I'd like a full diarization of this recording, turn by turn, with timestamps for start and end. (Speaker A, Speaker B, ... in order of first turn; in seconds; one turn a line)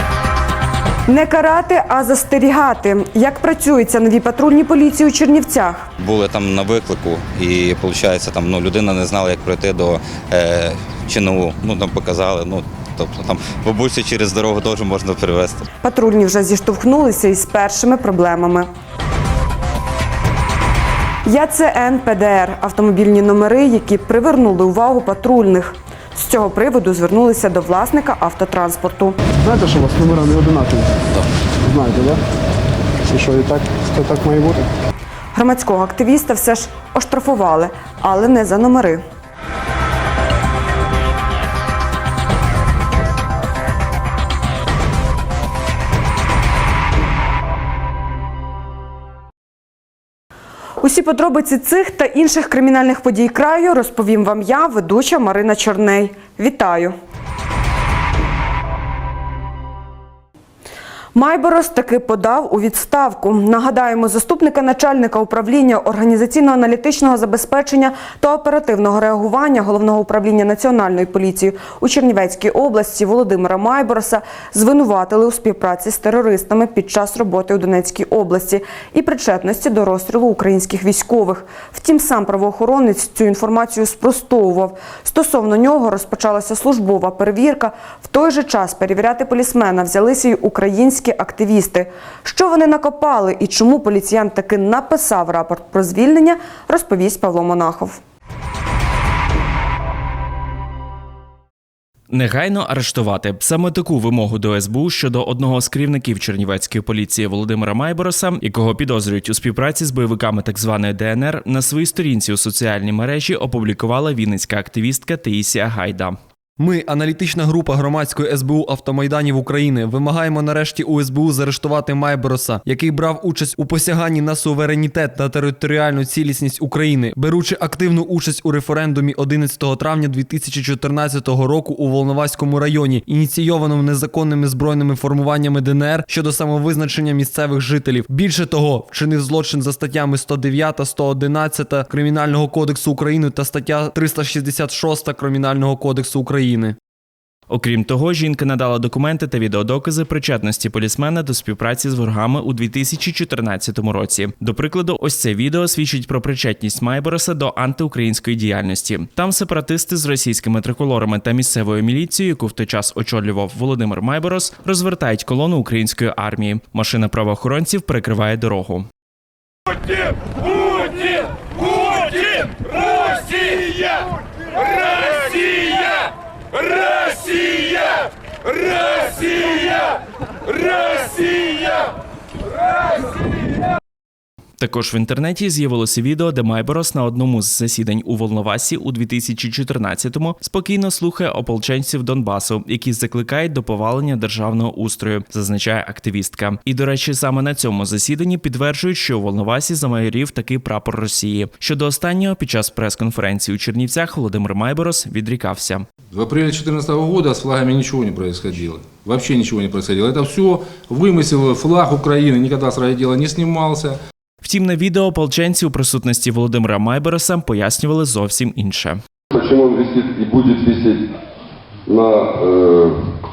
Speaker A: 1.1-5.9
Speaker B: 6.0-15.7
Speaker A: 15.8-18.7
Speaker A: 21.2-29.2
Speaker C: 29.4-30.9
Speaker C: 31.6-32.2
Speaker C: 33.1-34.7
Speaker A: 35.3-39.0
Speaker A: 50.8-57.0
Speaker A: 61.1-98.0
Speaker D: 102.1-116.2
Speaker E: 116.6-146.8
Speaker D: 147.5-168.9
Speaker D: 184.6-205.8
Speaker F: 206.1-214.0
Speaker D: 214.4-219.0
Speaker G: 219.3-221.1
Speaker G: 221.8-223.1